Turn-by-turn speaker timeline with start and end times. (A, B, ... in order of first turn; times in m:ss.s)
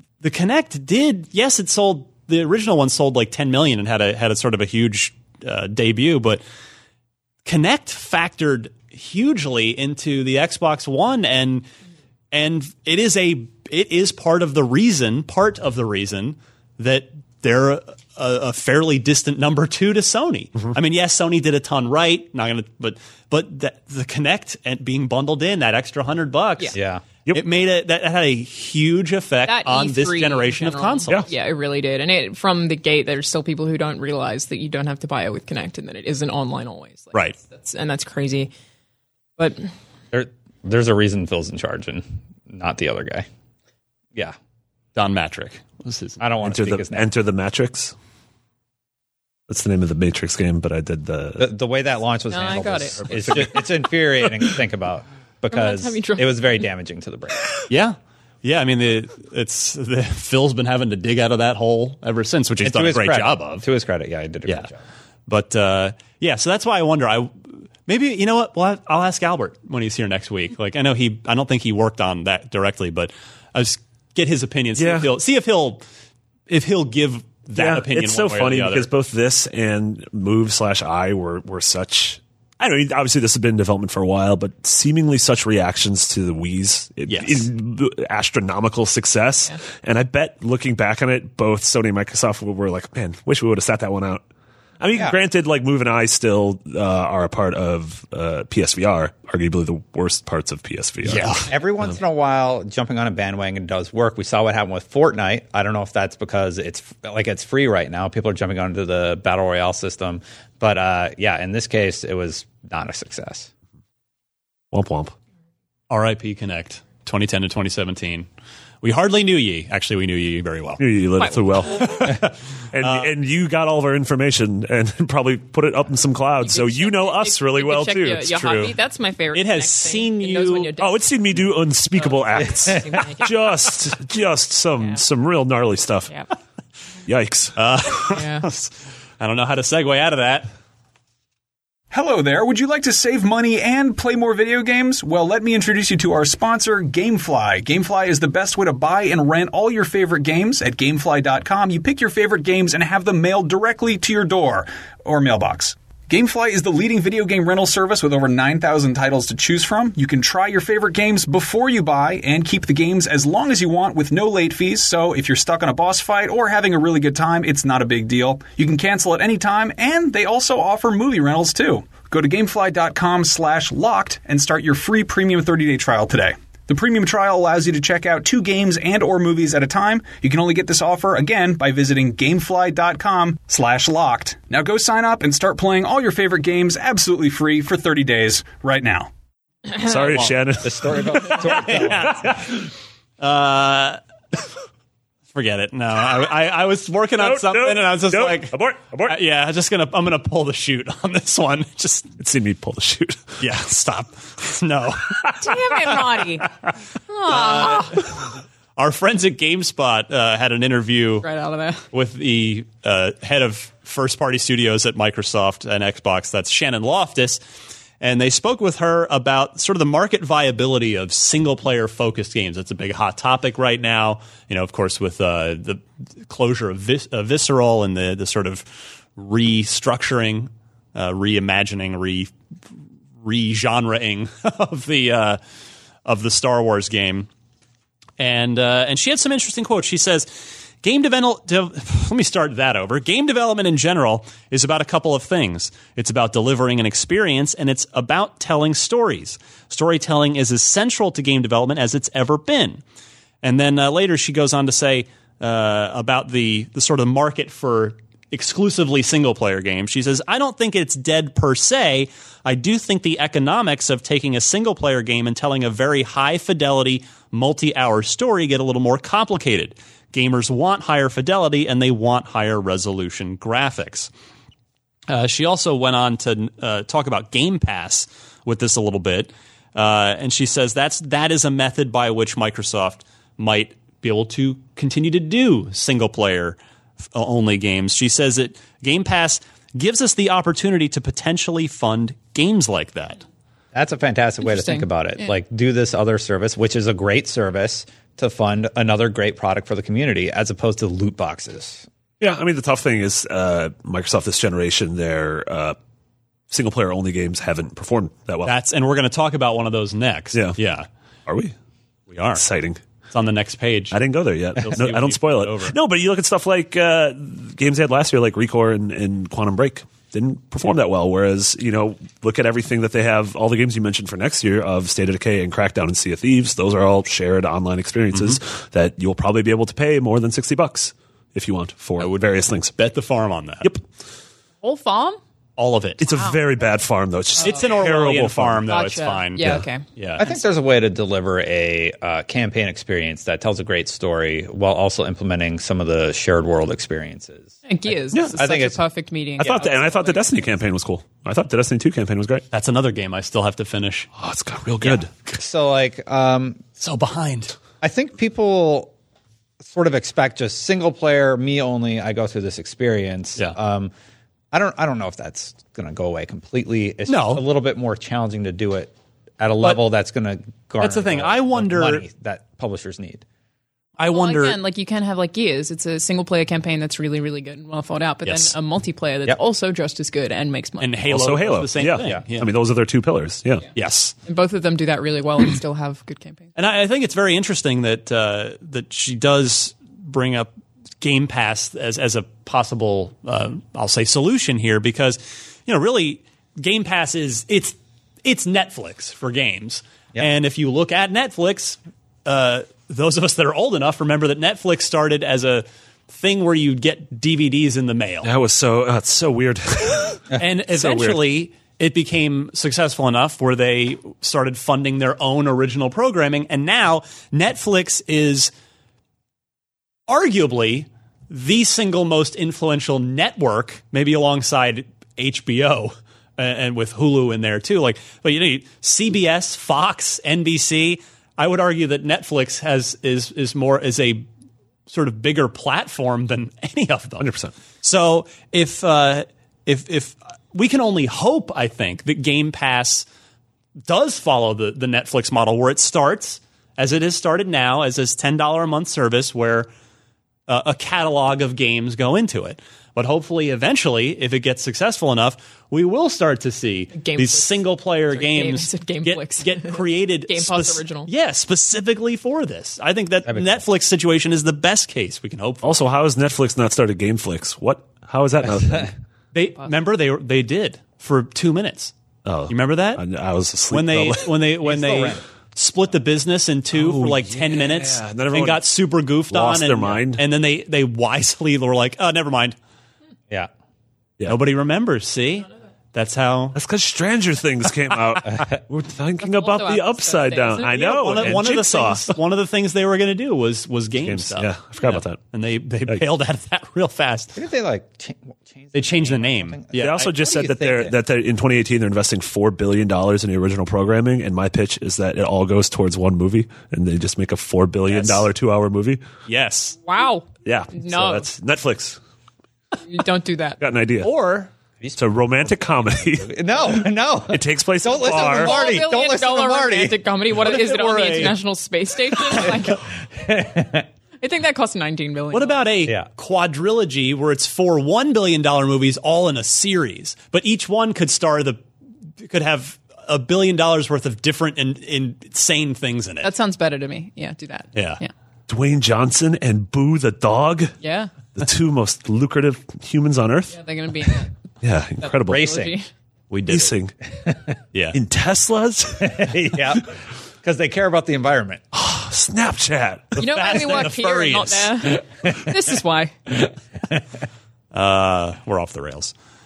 0:00.2-0:06.4 A
0:07.4-0:11.6 A
0:12.3-0:26.8 A
0:26.7-0:27.0 B
0:27.3-0:31.2 A
0:29.4-0:38.5 C
0:39.4-0:39.7 C
0:40.1-0:43.2 B
0:45.0-0:46.2 A
0:46.2-0:47.1 B
0:46.4-0:47.9 D
0:49.5-0:51.5 D
0:51.4-0:57.4 B
0:52.3-0:53.7 C
0:55.5-0:56.6 C
0:57.7-1:03.6 A
1:02.6-1:04.8 B
1:05.3-1:15.8 A
1:14.8-1:15.1 D
1:16.5-1:18.9 A
1:17.5-1:34.2 D
1:27.1-1:27.5 A
1:34.8-1:41.5 D
1:41.0-1:53.5 B
1:41.1-1:41.5 A
1:54.7-1:55.1 D
1:55.9-1:58.3 A
1:58.8-2:00.8 A
2:00.8-2:08.4 D
2:01.2-2:01.8 C
2:01.7-2:03.1 A
2:06.4-2:11.0 C
2:08.4-2:08.7 A
2:09.3-2:10.7 A
2:10.8-2:16.1 D
2:12.0-2:13.6 C
2:17.0-2:17.6 D
2:17.6-2:20.5 A
2:18.1-2:18.5 C
2:21.9-3:09.1 E
3:09.7-3:12.4 D
3:10.0-3:10.3 A
3:10.6-3:12.2 B
3:11.2-3:14.0 A
3:15.3-3:22.1 A
3:17.2-3:19.2 D
3:22.2-3:23.3 D
3:23.4-3:25.8 A
3:25.4-3:26.5 C
3:27.1-3:28.2 C
3:27.3-3:31.2 A
3:31.2-3:31.9 C
3:31.9-3:37.4 A
3:38.0-3:52.3 A
3:53.2-3:55.4 A
3:56.0-3:57.3 A
3:58.2-4:12.8 A
4:13.4-4:34.1 A
4:35.1-4:46.6 A
4:47.1-4:53.2 A
4:53.7-5:01.8 B
4:54.4-4:55.3 C
5:02.2-5:05.8 D
5:06.5-5:08.5 D
5:08.4-5:10.9 A
5:11.3-5:11.5 D
5:12.1-5:12.4 A
5:12.3-5:12.8 D
5:13.1-5:14.0 A
5:13.9-5:32.7 D
5:14.6-5:15.8 A
5:28.1-5:28.4 A
5:32.0-5:33.7 A
5:34.6-5:35.2 C
5:35.6-5:36.0 A
5:36.0-5:38.7 D
5:36.1-5:36.4 C
5:37.4-5:40.2 A
5:38.7-5:40.3 C
5:40.2-5:47.5 B
5:47.6-5:50.3 C
5:48.1-5:48.8 B
5:49.4-5:52.4 D
5:52.5-5:54.1 A
5:54.2-5:55.1 D
5:54.8-5:56.6 B
5:56.8-5:57.6 A
5:57.8-5:58.9 B
5:59.6-6:03.9 B
6:04.5-6:13.2 B
6:07.1-6:07.4 A
6:10.8-6:12.0 A
6:14.0-6:14.6 A
6:14.1-6:21.0 C
6:18.2-6:18.5 A
6:20.8-6:22.5 A
6:21.1-6:23.7 D
6:23.7-6:24.1 A
6:24.2-6:26.5 C
6:26.6-6:30.5 A
6:31.0-6:48.3 A
6:48.2-6:51.2 D
6:50.3-6:58.5 A
7:00.1-7:14.2 A
7:14.9-7:17.3 A
7:17.2-7:17.5 D
7:17.8-7:23.0 A
7:23.9-7:29.7 A
7:30.5-7:45.8 A
7:36.9-7:37.6 C
7:38.1-7:41.1 C
7:43.3-7:43.6 B
7:45.6-7:48.9 D
7:49.3-7:51.9 A
7:52.2-7:54.3 D
7:52.5-7:53.0 A
7:53.7-8:02.6 A
7:54.6-7:55.2 B
7:56.7-7:58.6 D
7:59.3-8:00.2 D
8:04.2-8:06.6 A
8:06.5-8:12.1 D
8:09.2-8:11.4 C
8:10.7-8:17.4 A
8:14.0-8:15.2 D
8:17.4-8:20.9 B
8:18.7-8:20.1 A
8:19.8-8:29.0 D
8:27.9-8:28.2 A
8:29.2-8:29.8 A
8:29.8-8:31.2 C
8:30.4-8:32.0 D
8:32.9-8:33.6 C
8:33.6-8:34.1 D
8:34.0-8:34.5 A
8:35.0-8:38.6 D
8:36.2-8:40.0 B
8:38.0-8:42.8 C
8:40.3-8:41.4 A
8:43.1-8:43.9 B
8:44.2-8:45.7 C
8:45.3-8:51.6 A
8:52.2-8:56.3 A
8:56.2-8:58.1 C
8:57.7-8:58.0 A
8:58.5-9:00.7 D
9:00.8-9:01.1 C
9:01.3-9:03.6 D
9:03.5-9:04.3 C
9:04.6-9:05.5 D
9:05.0-9:05.9 C
9:05.3-9:05.7 B
9:06.3-9:06.7 A
9:06.5-9:06.9 D
9:07.7-9:08.0 A
9:07.9-9:09.6 D
9:09.0-9:11.6 B
9:11.7-9:13.2 D
9:13.2-9:15.0 A
9:13.2-9:16.3 C
9:17.7-9:19.1 A